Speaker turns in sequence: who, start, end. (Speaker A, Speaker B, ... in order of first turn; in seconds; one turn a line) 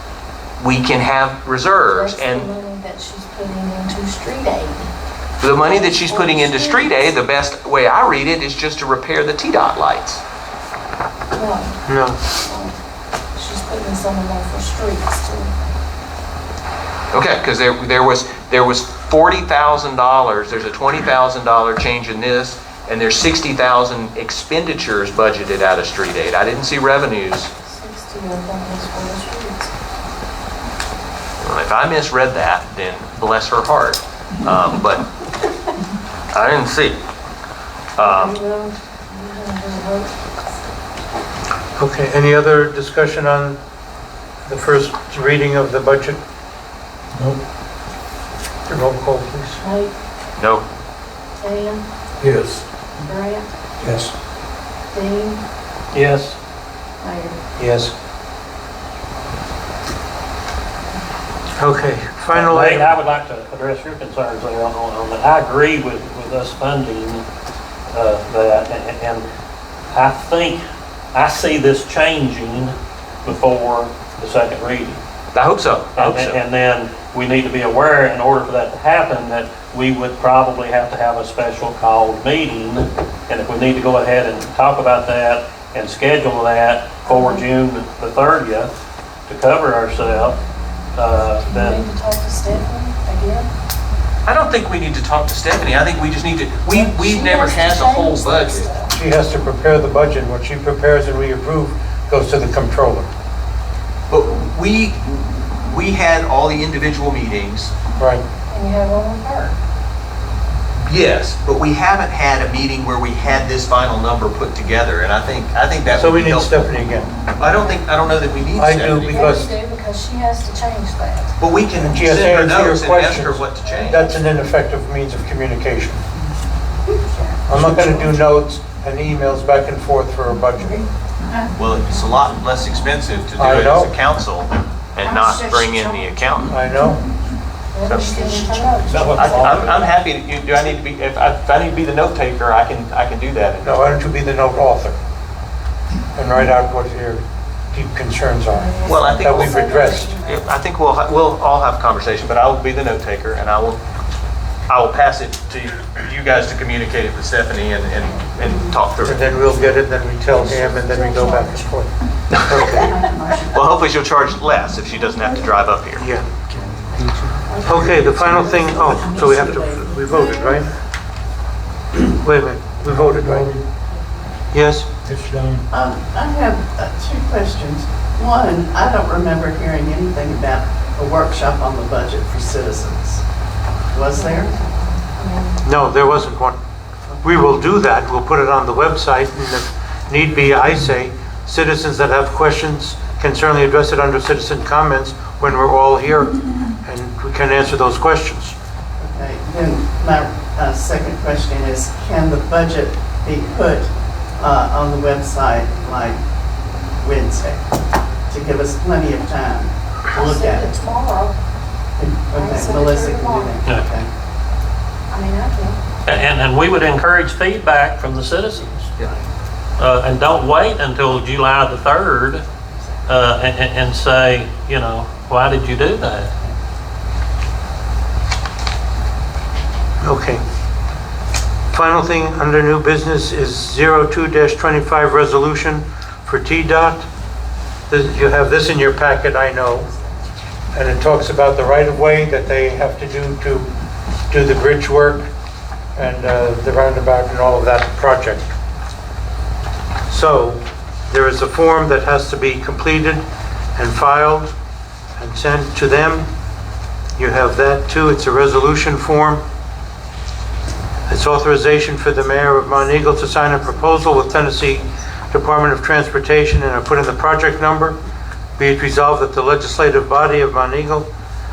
Speaker A: 0.6-2.5
Speaker B: 1.9-4.9
Speaker A: 5.4-10.2
Speaker B: 5.7-7.0
Speaker B: 11.3-11.8
Speaker C: 11.8-12.2
Speaker B: 12.4-12.8
Speaker B: 13.3-15.5
Speaker A: 17.1-27.5
Speaker B: 27.6-29.7
Speaker A: 31.4-35.1
Speaker A: 36.3-37.0
Speaker A: 38.0-38.4
Speaker B: 38.0-40.1
Speaker C: 41.8-43.6
Speaker C: 44.4-46.2
Speaker C: 48.7-49.6
Speaker B: 49.6-49.9
Speaker A: 50.4-50.6
Speaker B: 51.4-51.8
Speaker D: 52.2-52.6
Speaker B: 53.0-53.5
Speaker D: 53.8-54.1
Speaker B: 54.9-55.4
Speaker E: 55.9-56.4
Speaker B: 57.0-57.4
Speaker C: 57.6-57.9
Speaker C: 61.6-62.9
Speaker E: 62.3-67.2
Speaker E: 67.9-69.2
Speaker E: 69.9-70.6
Speaker E: 71.1-75.0
Speaker A: 75.3-76.4
Speaker E: 75.9-88.7
Speaker B: 87.0-87.4
Speaker E: 89.3-90.4
Speaker E: 90.9-91.8
Speaker B: 91.1-93.5
Speaker A: 94.2-98.7
Speaker B: 96.7-98.9
Speaker C: 98.9-103.1
Speaker A: 104.1-107.7
Speaker C: 108.0-108.2
Speaker B: 108.5-109.5
Speaker A: 110.8-116.7
Speaker C: 115.9-117.1
Speaker A: 117.3-119.5
Speaker B: 117.4-117.8
Speaker C: 118.5-119.5
Speaker B: 119.0-121.3
Speaker A: 121.4-124.0
Speaker C: 121.7-126.0
Speaker B: 123.6-124.1
Speaker B: 127.1-128.1
Speaker C: 127.5-130.8
Speaker A: 131.6-136.5
Speaker C: 133.4-133.9
Speaker C: 136.4-137.0
Speaker B: 137.7-139.6
Speaker A: 137.8-143.7
Speaker E: 138.9-139.7
Speaker C: 143.6-144.9
Speaker C: 146.1-150.1
Speaker B: 148.5-150.5
Speaker A: 148.8-153.8
Speaker A: 154.7-159.8
Speaker C: 159.0-161.9
Speaker B: 160.3-161.7
Speaker C: 162.5-162.9
Speaker B: 162.8-163.5
Speaker A: 163.5-166.1
Speaker C: 166.0-166.3
Speaker D: 166.5-169.9
Speaker B: 167.5-169.0
Speaker C: 167.6-170.7
Speaker F: 168.9-169.6
Speaker B: 169.6-170.6
Speaker C: 172.0-173.5
Speaker D: 172.8-173.6
Speaker C: 174.5-174.9
Speaker D: 175.0-175.6
Speaker F: 175.7-183.2
Speaker F: 183.9-184.5
Speaker B: 184.1-185.6
Speaker C: 185.6-186.6
Speaker C: 187.2-198.5
Speaker F: 199.0-206.2
Speaker F: 207.0-210.7
Speaker B: 210.1-211.4
Speaker F: 212.0-214.1
Speaker B: 212.3-213.6
Speaker B: 215.1-215.8
Speaker E: 216.1-218.9
Speaker E: 219.8-222.4
Speaker E: 223.1-226.3
Speaker C: 230.0-230.4
Speaker C: 231.7-237.1
Speaker C: 237.9-239.9
Speaker C: 240.7-243.7
Speaker C: 244.3-245.3
Speaker C: 245.9-248.5
Speaker C: 250.1-253.2
Speaker C: 253.8-254.5
Speaker C: 255.2-256.3
Speaker C: 257.2-259.4
Speaker C: 261.1-268.0
Speaker B: 262.2-264.7
Speaker C: 268.6-271.1